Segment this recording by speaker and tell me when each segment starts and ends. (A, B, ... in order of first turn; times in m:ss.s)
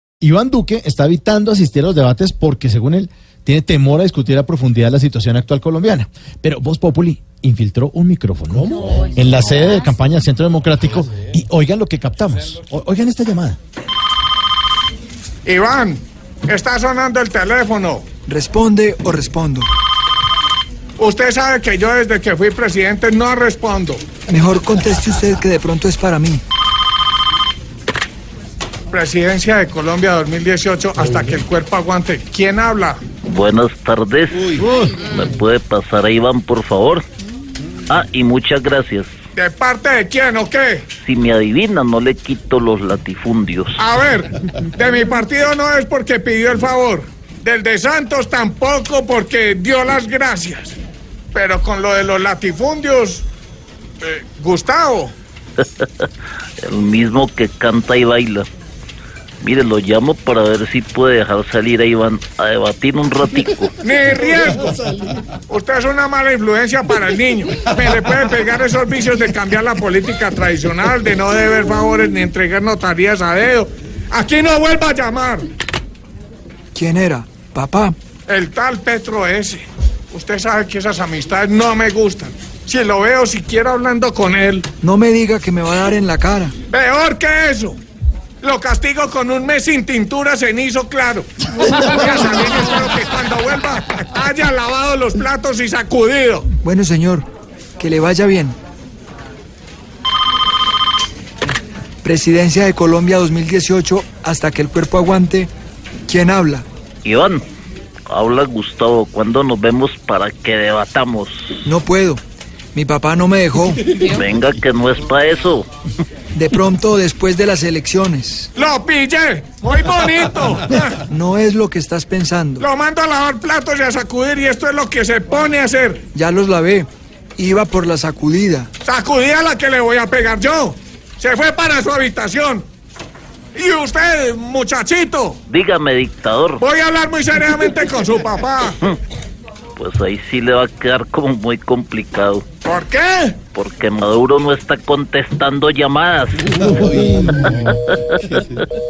0:00.2-0:13.6 A
0:15.4-0:18.1 B
0:18.2-0:19.7 C
0:21.0-0:24.0 B
0:24.3-0:26.4 C
0:28.9-0:33.0 B
0:33.2-0:37.0 D
0:37.9-0:39.1 D
0:39.4-0:40.8 B
0:41.0-0:43.8 D
0:43.8-0:50.8 B
0:51.3-0:53.2 B
0:54.0-0:55.1 B
0:56.6-0:58.5 D
0:59.4-1:03.7 D
1:03.8-1:04.9 B
1:05.5-1:15.4 B
1:16.7-1:18.0 C
1:18.3-1:24.7 B
1:24.8-1:26.5 C
1:26.7-1:27.8 B
1:28.4-1:36.5 B
1:36.6-1:37.3 C
1:37.8-1:38.6 C
1:42.0-1:45.5 C
1:46.1-1:46.7 C
1:47.0-1:47.4 D
1:48.1-1:51.4 D
1:51.6-1:52.2 C
1:52.7-1:53.8 C
1:53.9-1:55.7 D
1:56.3-1:58.5 C
1:58.6-2:01.0 B
2:01.1-2:02.6 C
2:02.6-2:06.0 B
2:06.1-2:08.7 C
2:08.8-2:12.6 B
2:13.6-2:15.4 B
2:15.5-2:16.6 D
2:16.6-2:18.8 B
2:19.8-2:22.4 D
2:22.6-2:23.4 B
2:23.5-2:28.4 D